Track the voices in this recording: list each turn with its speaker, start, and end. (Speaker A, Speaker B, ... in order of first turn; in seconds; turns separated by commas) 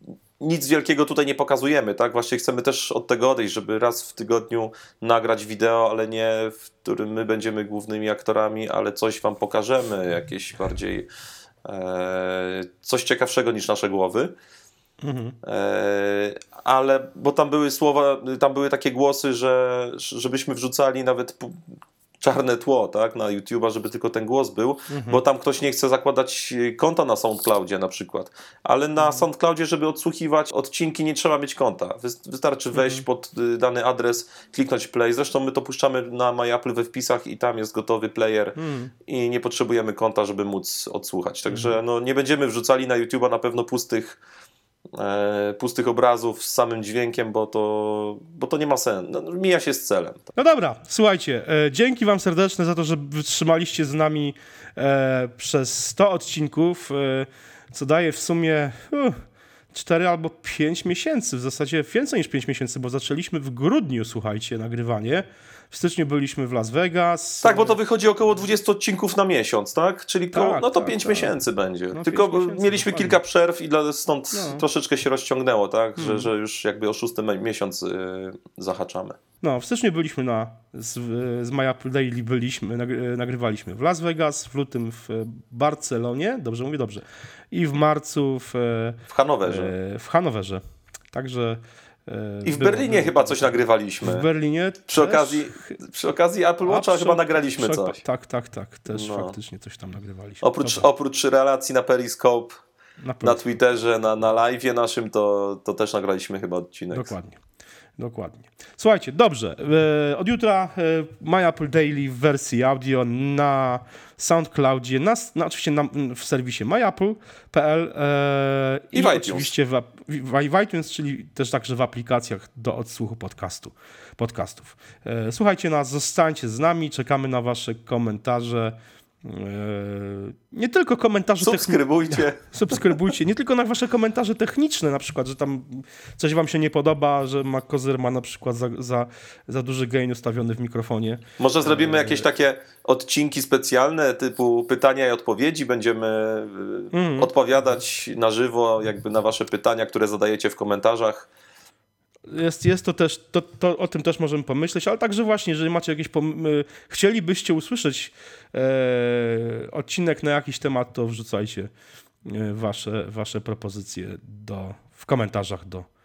Speaker A: 0.4-11.1, Speaker A: 11.6-14.3, Speaker B: 15.0-15.3, Speaker A: 15.4-21.6, Speaker A: 22.2-44.2, Speaker B: 24.9-25.2, Speaker B: 29.0-29.2, Speaker B: 32.7-33.0, Speaker B: 38.6-38.9, Speaker B: 41.5-41.8, Speaker A: 44.9-50.2, Speaker B: 50.3-59.2, Speaker B: 59.7-67.8, Speaker A: 67.4-79.2, Speaker B: 70.3-71.4, Speaker B: 71.9-73.2, Speaker B: 74.3-74.6, Speaker B: 76.0-76.3, Speaker B: 79.4-95.8, Speaker A: 89.1-89.7, Speaker A: 92.4-94.3, Speaker A: 94.9-98.0, Speaker B: 96.6-100.9, Speaker A: 98.9-99.4, Speaker A: 100.4-102.6, Speaker B: 103.0-103.5, Speaker A: 103.2-107.1, Speaker B: 106.9-107.4, Speaker B: 108.0-142.2, Speaker A: 118.9-119.5, Speaker A: 131.4-132.9, Speaker A: 141.4-151.3, Speaker B: 146.9-147.3, Speaker B: 152.3-161.7, Speaker B: 162.2-165.9